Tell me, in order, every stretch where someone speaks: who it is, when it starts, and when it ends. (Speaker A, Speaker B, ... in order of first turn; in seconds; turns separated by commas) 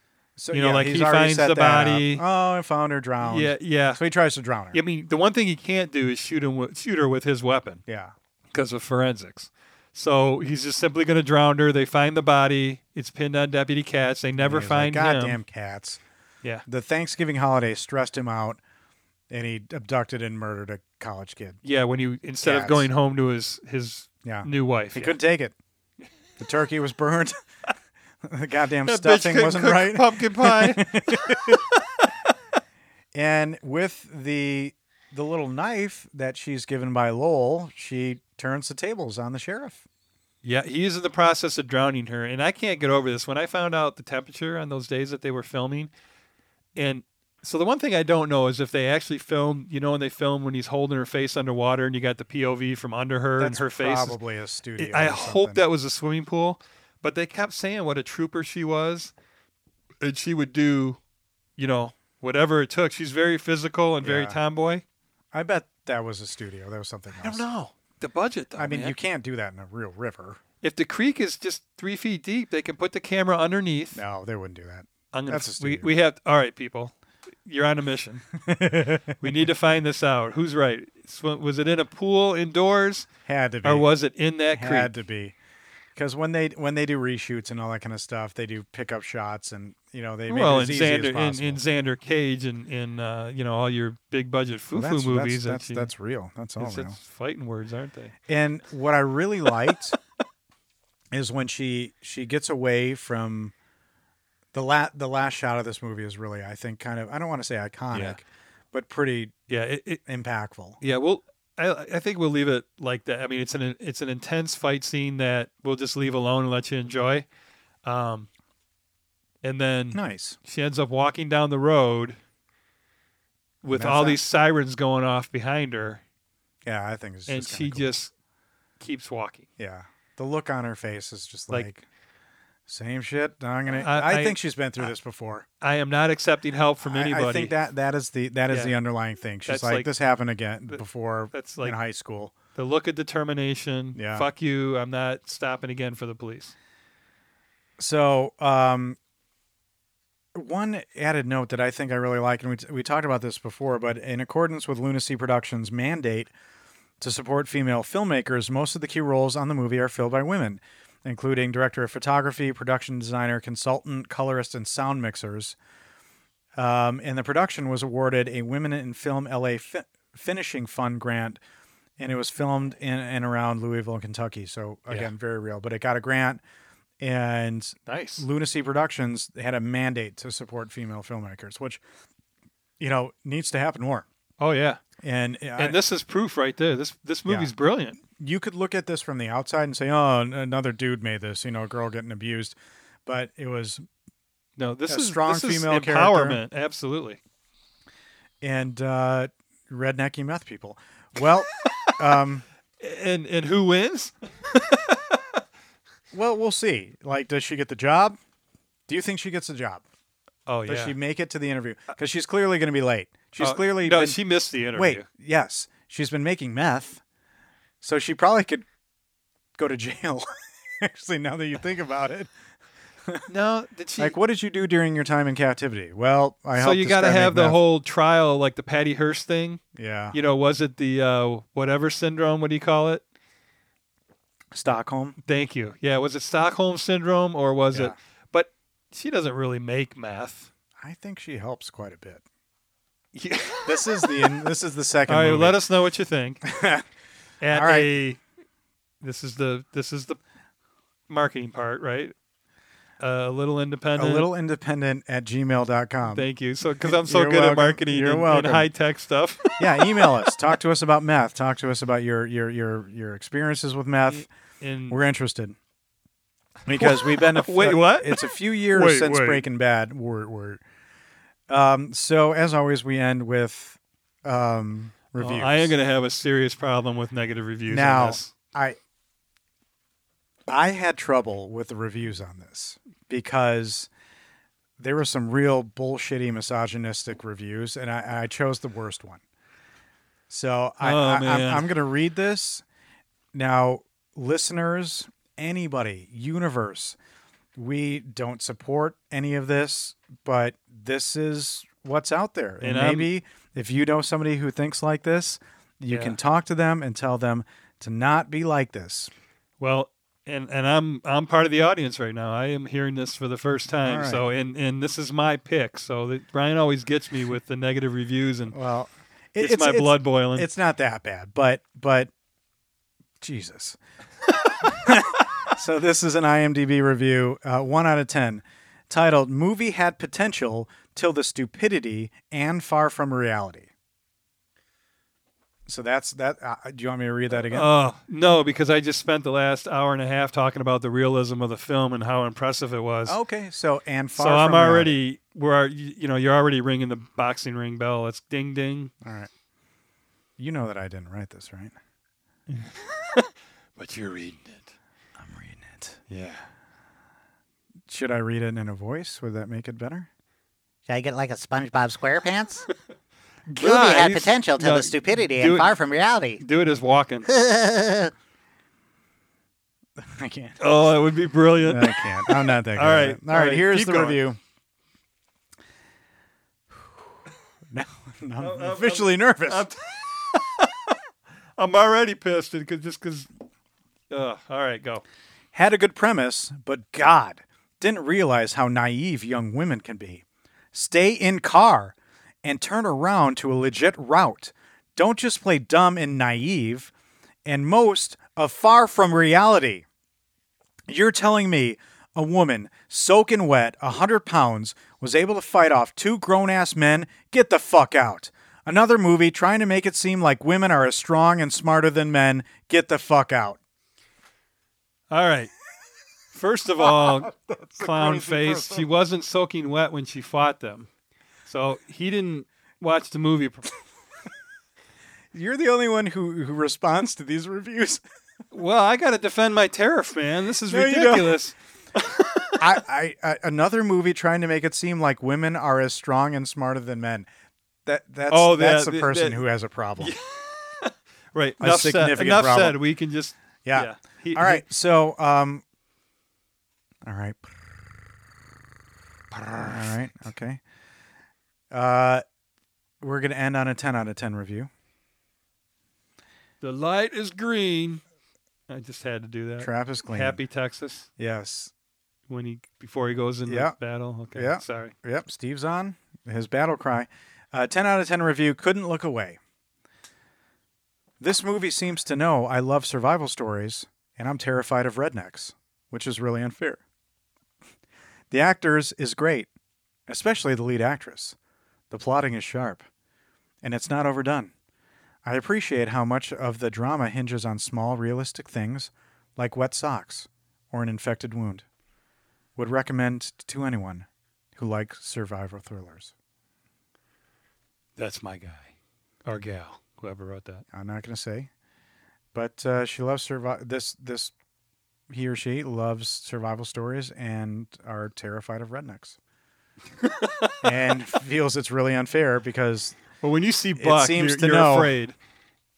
Speaker A: 0.4-4.8, Speaker B: 0.5-2.2, Speaker B: 3.2-4.0, Speaker B: 4.7-7.8, Speaker A: 7.9-8.1, Speaker B: 8.5-15.4, Speaker A: 14.4-16.0, Speaker A: 16.7-18.6, Speaker A: 19.3-21.6, Speaker B: 21.6-25.2, Speaker A: 22.4-22.9, Speaker A: 24.2-25.6, Speaker A: 26.4-27.4, Speaker A: 28.2-31.6, Speaker B: 28.9-31.7, Speaker A: 33.1-39.8, Speaker B: 40.4-45.9, Speaker B: 46.8-54.2, Speaker A: 53.4-55.6, Speaker B: 54.8-59.1, Speaker B: 60.0-61.0, Speaker B: 61.6-64.8, Speaker A: 64.0-64.4, Speaker A: 65.3-67.5, Speaker B: 67.2-69.0, Speaker A: 68.6-70.4, Speaker B: 70.6-74.0, Speaker A: 74.0-75.9, Speaker B: 75.1-76.9, Speaker B: 77.5-78.2, Speaker A: 78.4-79.3, Speaker B: 79.2-83.1, Speaker A: 83.3-83.9, Speaker B: 83.6-84.9, Speaker A: 84.5-85.3, Speaker A: 86.0-91.6, Speaker B: 90.3-95.9, Speaker A: 94.7-97.0, Speaker B: 96.6-98.2, Speaker A: 98.3-100.0, Speaker A: 101.1-103.5, Speaker A: 104.5-109.4, Speaker B: 107.9-108.2, Speaker B: 109.5-110.0, Speaker A: 110.0-110.8, Speaker B: 110.8-117.3, Speaker B: 117.8-118.3, Speaker B: 119.4-122.2, Speaker A: 119.9-120.4, Speaker B: 123.6-126.0, Speaker A: 123.7-124.2, Speaker A: 126.7-127.9, Speaker B: 127.3-128.1, Speaker B: 128.8-129.5, Speaker A: 129.6-131.8, Speaker A: 132.7-135.5, Speaker B: 133.7-134.4, Speaker B: 135.6-137.6, Speaker A: 136.8-142.3, Speaker B: 138.5-138.8, Speaker B: 139.5-139.9, Speaker B: 141.3-141.8, Speaker B: 142.6-146.5, Speaker A: 144.0-144.3, Speaker A: 147.8-149.0, Speaker A: 150.3-156.3, Speaker A: 157.0-165.6, Speaker A: 166.6-171.4, Speaker A: 172.0-176.4, Speaker A: 177.0-181.8, Speaker B: 177.9-178.3, Speaker A: 182.8-184.1, Speaker B: 184.4-184.8, Speaker A: 185.0-185.8, Speaker B: 185.6-188.0, Speaker A: 187.3-193.8, Speaker B: 194.6-197.2, Speaker A: 194.9-196.4, Speaker A: 198.4-202.4, Speaker B: 201.7-201.9, Speaker B: 202.8-205.2, Speaker A: 206.1-208.2, Speaker A: 208.9-209.8, Speaker B: 210.5-210.9, Speaker A: 210.7-214.2, Speaker B: 213.4-215.1, Speaker A: 214.7-217.0, Speaker A: 217.8-218.7, Speaker A: 219.6-222.3, Speaker B: 223.3-224.1, Speaker A: 224.0-227.6, Speaker B: 226.6-229.6, Speaker A: 229.8-230.2, Speaker B: 230.1-233.0, Speaker A: 234.5-235.2, Speaker B: 235.2-240.5, Speaker A: 240.8-242.2, Speaker B: 243.1-244.4, Speaker A: 243.7-245.6, Speaker B: 245.1-246.4, Speaker A: 246.4-246.9, Speaker B: 247.4-248.2, Speaker A: 247.5-247.9, Speaker B: 249.0-250.2, Speaker B: 251.1-252.1, Speaker B: 253.0-254.3, Speaker A: 254.0-256.3, Speaker B: 256.1-260.3, Speaker A: 256.8-258.7, Speaker A: 259.6-264.3, Speaker B: 264.6-265.0, Speaker A: 264.9-265.6, Speaker A: 266.7-270.6, Speaker B: 266.7-269.4, Speaker A: 271.5-275.7, Speaker B: 275.2-278.3, Speaker A: 277.7-278.8, Speaker A: 280.5-283.9, Speaker A: 284.8-289.2, Speaker A: 290.3-292.6, Speaker B: 290.8-291.7, Speaker A: 293.3-297.0, Speaker A: 297.6-309.1, Speaker B: 302.6-303.1, Speaker B: 305.9-306.2, Speaker B: 309.6-318.6, Speaker A: 313.9-314.2, Speaker A: 318.5-322.1, Speaker B: 319.4-320.5, Speaker A: 323.2-323.8, Speaker A: 324.6-333.7, Speaker A: 335.7-337.7, Speaker B: 337.3-343.2, Speaker A: 343.1-345.0, Speaker B: 344.2-348.9, Speaker A: 349.0-349.3, Speaker A: 350.4-351.8, Speaker B: 352.5-354.7, Speaker A: 355.2-356.0, Speaker B: 356.1-356.5, Speaker A: 357.9-360.1, Speaker C: 360.9-362.7, Speaker B: 363.5-365.7, Speaker C: 363.6-366.4, Speaker B: 366.4-367.3, Speaker C: 367.3-368.1, Speaker A: 370.0-370.6, Speaker B: 370.6-374.2, Speaker A: 371.6-374.4, Speaker A: 377.7-379.7, Speaker B: 378.4-380.9, Speaker B: 381.6-383.3, Speaker B: 384.1-385.0, Speaker A: 385.5-396.9, Speaker A: 397.4-399.9, Speaker A: 400.9-413.6, Speaker B: 415.1-415.5, Speaker B: 416.3-420.9, Speaker A: 416.8-418.9, Speaker B: 421.5-423.7, Speaker A: 425.3-428.0, Speaker B: 428.5-432.6, Speaker A: 430.7-431.4, Speaker A: 432.6-437.3, Speaker A: 437.9-440.1, Speaker B: 438.3-439.4, Speaker B: 440.0-444.6, Speaker A: 441.6-442.8, Speaker A: 443.6-445.6, Speaker A: 447.1-447.4, Speaker B: 449.3-449.9, Speaker A: 449.6-450.6, Speaker A: 451.7-452.2, Speaker A: 453.0-454.7, Speaker B: 456.6-458.0, Speaker B: 458.7-461.1, Speaker A: 459.6-460.4, Speaker A: 461.2-461.7, Speaker B: 462.3-464.9, Speaker A: 463.5-463.8, Speaker A: 464.3-469.4, Speaker A: 471.2-476.8, Speaker A: 478.3-479.5, Speaker A: 480.1-481.4, Speaker A: 481.9-482.9, Speaker A: 483.6-484.5, Speaker A: 485.2-491.7, Speaker A: 492.6-496.1, Speaker B: 498.0-498.7, Speaker B: 499.3-500.6, Speaker A: 500.7-501.5, Speaker A: 502.3-504.3, Speaker A: 505.1-509.2, Speaker B: 510.0-510.9, Speaker A: 510.6-513.0, Speaker B: 513.2-515.2, Speaker A: 513.8-514.9